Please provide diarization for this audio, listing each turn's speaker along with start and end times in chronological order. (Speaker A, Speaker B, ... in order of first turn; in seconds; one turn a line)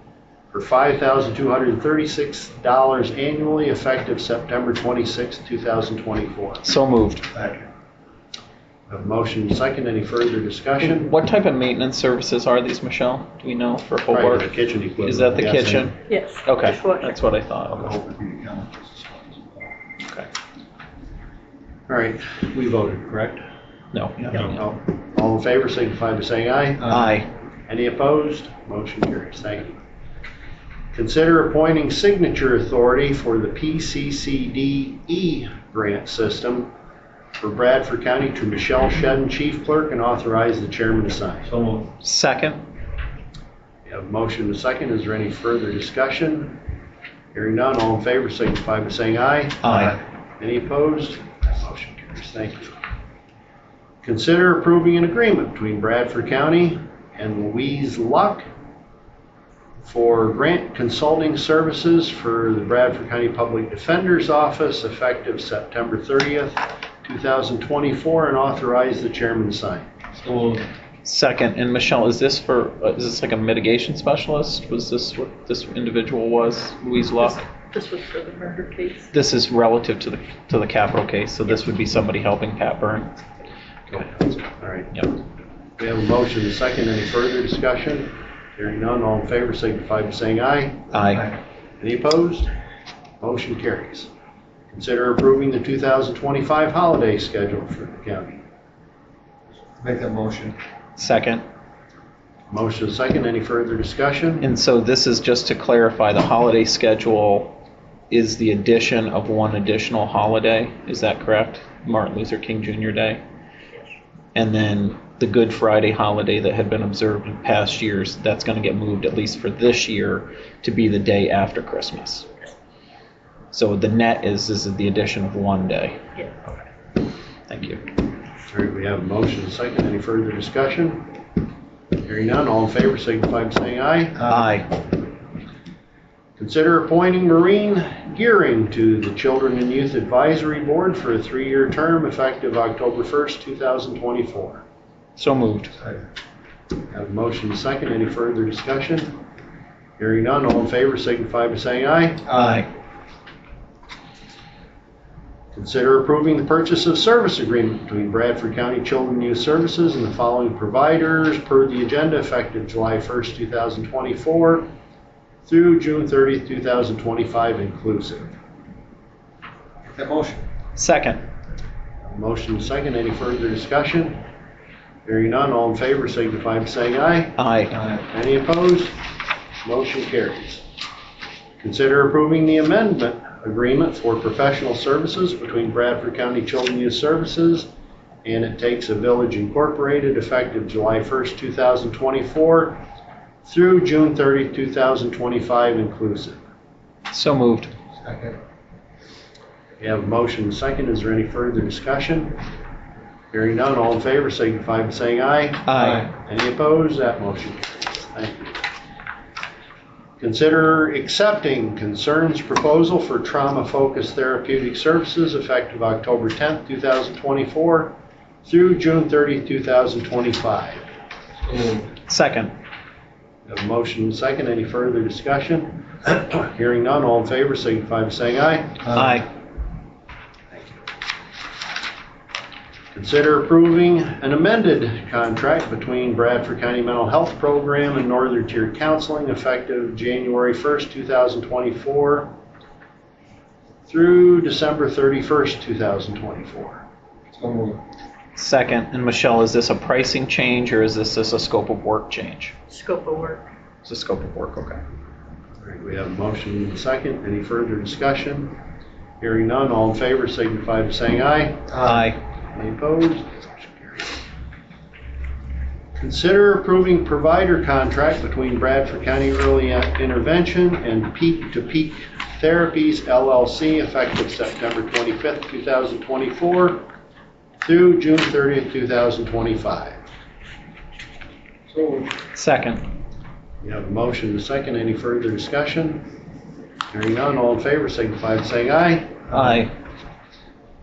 Speaker A: 0.5-6.6
Speaker B: 6.6-7.3
Speaker C: 7.3-7.7
Speaker A: 8.9-11.1
Speaker B: 10.8-17.9
Speaker A: 14.1-15.9
Speaker D: 16.1-17.2
Speaker C: 17.7-19.7
Speaker A: 21.9-23.4
Speaker B: 23.9-24.6
Speaker A: 24.2-26.9
Speaker C: 26.8-27.1
Speaker B: 26.9-27.3
Speaker A: 27.7-29.8
Speaker A: 30.9-36.7
Speaker A: 37.4-41.5
Speaker C: 41.5-41.9
Speaker B: 42.0-42.6
Speaker A: 43.9-46.6
Speaker A: 47.3-52.8
Speaker B: 49.6-50.0
Speaker A: 54.0-58.5
Speaker A: 59.8-69.9
Speaker C: 70.2-70.7
Speaker B: 71.0-77.4
Speaker D: 77.7-79.1
Speaker B: 79.1-83.1
Speaker A: 83.9-85.0
Speaker A: 85.8-90.9
Speaker B: 90.9-91.3
Speaker A: 91.8-92.5
Speaker A: 93.2-94.1
Speaker A: 94.7-98.4
Speaker C: 99.8-100.5
Speaker B: 101.0-101.4
Speaker A: 102.5-104.5
Speaker B: 104.4-107.5
Speaker B: 108.1-113.2
Speaker B: 114.3-122.3
Speaker B: 123.5-126.0
Speaker B: 127.5-127.8
Speaker A: 128.5-131.1
Speaker A: 132.0-134.2
Speaker C: 134.2-134.5
Speaker B: 134.3-134.7
Speaker A: 136.4-144.6
Speaker B: 145.2-145.7
Speaker C: 145.8-146.0
Speaker A: 146.9-149.2
Speaker A: 150.0-152.2
Speaker B: 152.3-152.7
Speaker A: 155.5-164.7
Speaker A: 165.4-168.3
Speaker C: 169.9-170.4
Speaker B: 170.8-171.2
Speaker A: 172.0-174.2
Speaker A: 175.0-177.4
Speaker B: 177.3-177.7
Speaker C: 177.7-178.0
Speaker A: 178.1-178.9
Speaker A: 179.6-180.6
Speaker A: 181.6-187.7
Speaker A: 188.2-192.8
Speaker A: 193.4-196.4
Speaker B: 197.1-197.7
Speaker C: 198.0-198.3
Speaker A: 199.8-202.4
Speaker A: 203.3-208.6
Speaker B: 205.7-206.1
Speaker C: 205.7-206.1
Speaker A: 210.2-220.8
Speaker C: 221.4-221.9
Speaker B: 222.1-222.5
Speaker A: 223.4-228.8
Speaker C: 228.8-229.2
Speaker B: 228.9-229.2
Speaker A: 230.5-230.8
Speaker A: 232.9-242.3
Speaker A: 243.9-246.8
Speaker C: 247.3-247.8
Speaker B: 248.3-252.5
Speaker D: 252.7-253.5
Speaker B: 253.8-254.8
Speaker A: 255.6-258.5
Speaker A: 259.2-261.7
Speaker C: 261.7-262.1
Speaker B: 261.8-262.2
Speaker A: 262.5-264.2
Speaker A: 265.9-276.9
Speaker A: 277.6-280.0
Speaker C: 281.7-282.1
Speaker B: 282.3-282.8
Speaker A: 283.6-286.1
Speaker A: 286.9-289.2
Speaker B: 289.3-289.7
Speaker C: 289.3-289.6